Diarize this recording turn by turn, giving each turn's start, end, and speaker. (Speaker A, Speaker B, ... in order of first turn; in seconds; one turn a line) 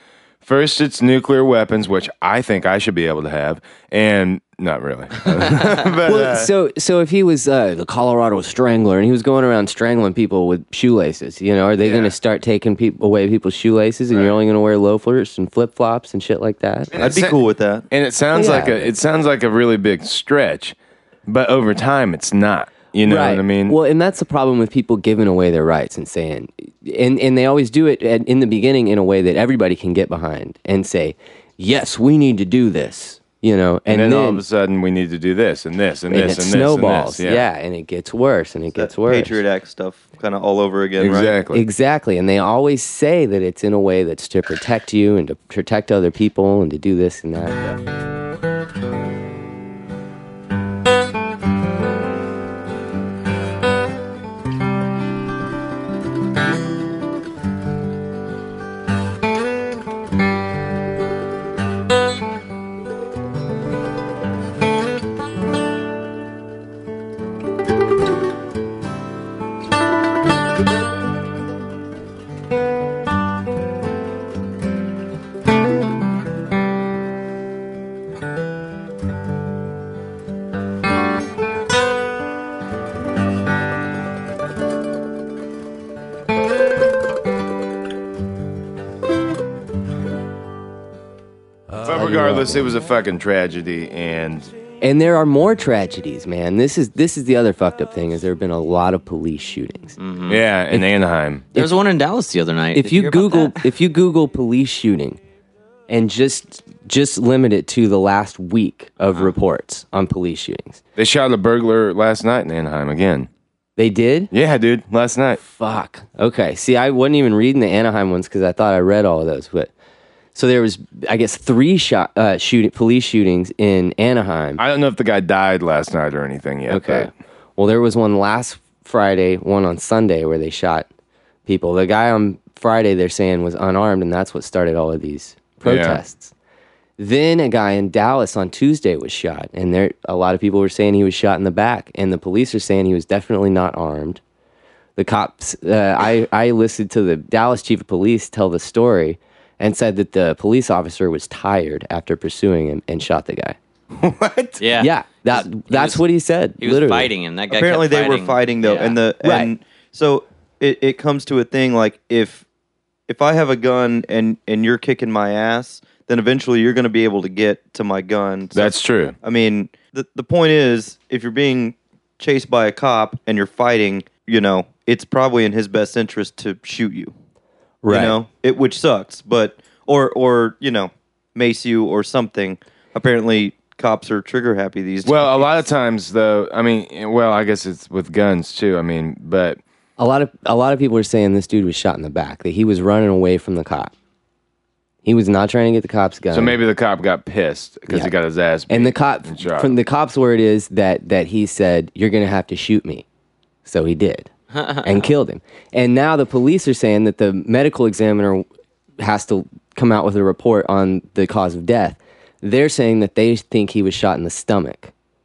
Speaker A: 0.4-6.5
Speaker B: 6.0-16.9
Speaker A: 11.8-12.1
Speaker A: 16.9-17.4
Speaker C: 17.0-17.9
Speaker A: 17.9-20.8
Speaker B: 18.3-18.9
Speaker A: 21.3-23.8
Speaker B: 23.0-34.4
Speaker A: 33.9-37.4
Speaker B: 36.1-39.4
Speaker C: 38.8-41.4
Speaker A: 41.0-41.6
Speaker B: 41.5-47.8
Speaker B: 91.7-92.7
Speaker A: 91.8-94.5
Speaker B: 94.8-100.0
Speaker D: 100.0-100.4
Speaker A: 100.3-101.5
Speaker D: 101.5-103.6
Speaker B: 102.8-105.2
Speaker B: 105.9-110.8
Speaker A: 111.0-113.3
Speaker B: 113.8-114.3
Speaker A: 114.3-115.4
Speaker B: 115.4-119.7
Speaker B: 120.3-124.6
Speaker A: 124.6-127.1
Speaker B: 126.7-130.9
Speaker B: 131.5-136.3
Speaker A: 135.6-136.0
Speaker B: 137.0-144.2
Speaker B: 145.0-153.6
Speaker A: 154.0-154.6
Speaker D: 154.6-156.0
Speaker B: 154.8-157.1
Speaker D: 156.6-159.0
Speaker C: 157.5-162.4
Speaker B: 159.2-159.5
Speaker C: 163.1-177.1
Speaker A: 168.5-169.2
Speaker B: 177.8-178.2
Speaker C: 177.9-185.3
Speaker A: 185.0-189.6
Speaker B: 190.0-193.9
Speaker B: 195.0-196.6
Speaker A: 196.3-199.8
Speaker B: 198.7-203.1
Speaker B: 203.7-208.5
Speaker B: 209.0-214.9